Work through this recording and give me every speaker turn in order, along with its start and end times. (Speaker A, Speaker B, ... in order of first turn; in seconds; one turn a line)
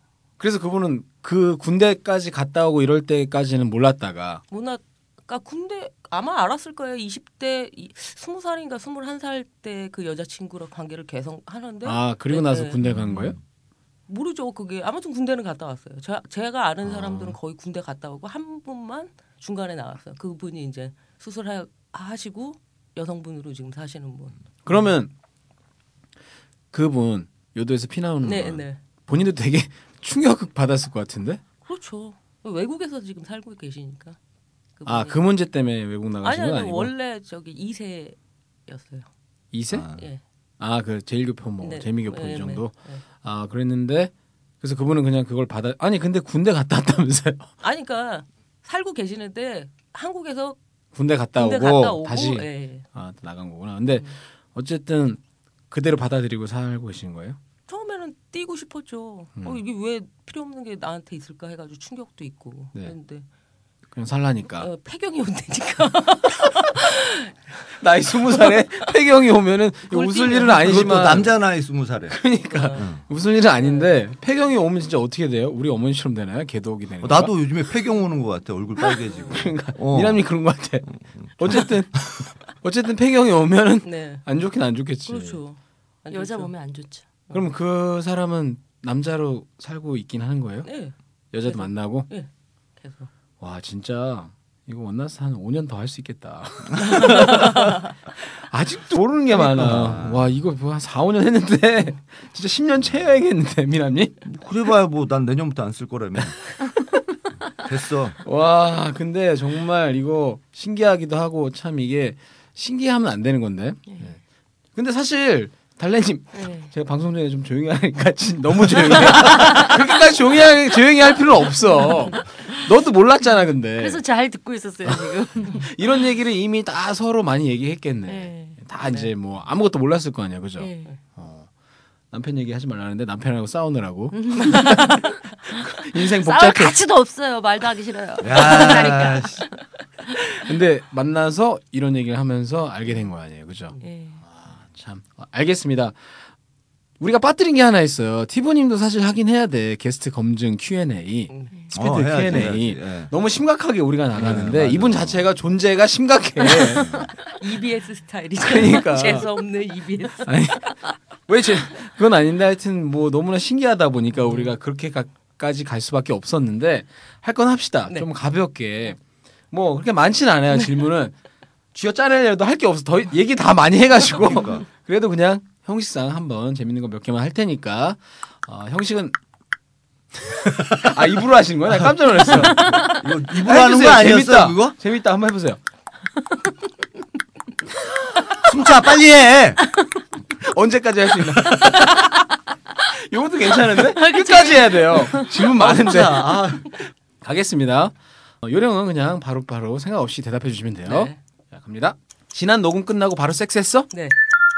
Speaker A: 0.4-4.4
Speaker B: 4.5-12.8
Speaker A: 11.8-13.4
Speaker C: 12.8-13.4
Speaker B: 14.1-24.4
Speaker C: 16.9-17.3
Speaker A: 24.6-25.1
Speaker A: 26.7-31.4
Speaker B: 28.2-28.8
Speaker B: 31.7-34.2
Speaker B: 34.8-35.2
Speaker A: 34.9-36.9
Speaker B: 36.2-38.2
Speaker B: 38.7-39.1
Speaker A: 39.5-39.9
Speaker C: 39.7-40.1
Speaker B: 40.0-40.2
Speaker A: 40.6-47.5
Speaker B: 41.6-43.0
Speaker B: 47.6-50.6
Speaker A: 50.9-57.4
Speaker B: 51.4-52.9
Speaker B: 57.7-63.2
Speaker A: 63.9-64.7
Speaker B: 64.6-67.3
Speaker A: 67.8-71.3
Speaker B: 68.1-68.9
Speaker B: 69.9-71.1
Speaker C: 70.5-72.2
Speaker A: 72.1-77.3
Speaker B: 72.5-72.9
Speaker C: 72.8-73.0
Speaker B: 73.6-74.0
Speaker C: 77.0-80.2
Speaker A: 79.3-85.4
Speaker C: 80.8-82.0
Speaker B: 83.8-84.2
Speaker B: 85.1-86.5
Speaker D: 86.1-87.0
Speaker A: 87.3-90.7
Speaker B: 90.6-92.3
Speaker A: 91.3-92.1
Speaker B: 92.8-93.1
Speaker A: 93.4-104.2
Speaker C: 99.3-100.3
Speaker C: 104.2-106.4
Speaker C: 107.5-108.2
Speaker A: 108.2-114.2
Speaker A: 114.8-124.0
Speaker D: 116.3-116.7
Speaker D: 119.0-119.8
Speaker D: 121.7-122.5
Speaker D: 123.8-125.7
Speaker A: 124.8-131.5
Speaker D: 128.1-128.6
Speaker B: 128.8-129.1
Speaker D: 130.6-131.0
Speaker A: 132.1-134.9
Speaker D: 134.1-139.5
Speaker A: 135.5-136.8
Speaker C: 138.2-139.4
Speaker A: 140.3-146.0
Speaker D: 143.8-144.2
Speaker A: 147.0-156.9
Speaker C: 151.7-153.1
Speaker C: 154.1-155.3
Speaker C: 156.8-157.1
Speaker B: 157.3-160.4
Speaker A: 158.4-159.3
Speaker A: 160.2-169.0
Speaker B: 164.2-164.5
Speaker A: 169.5-171.2
Speaker A: 171.7-179.2
Speaker C: 174.2-174.7
Speaker A: 180.7-185.6
Speaker C: 181.8-184.8
Speaker C: 188.4-189.6
Speaker A: 190.3-192.0
Speaker A: 192.9-196.5
Speaker D: 193.7-195.5
Speaker C: 195.5-196.7
Speaker A: 197.2-203.9
Speaker B: 200.9-201.2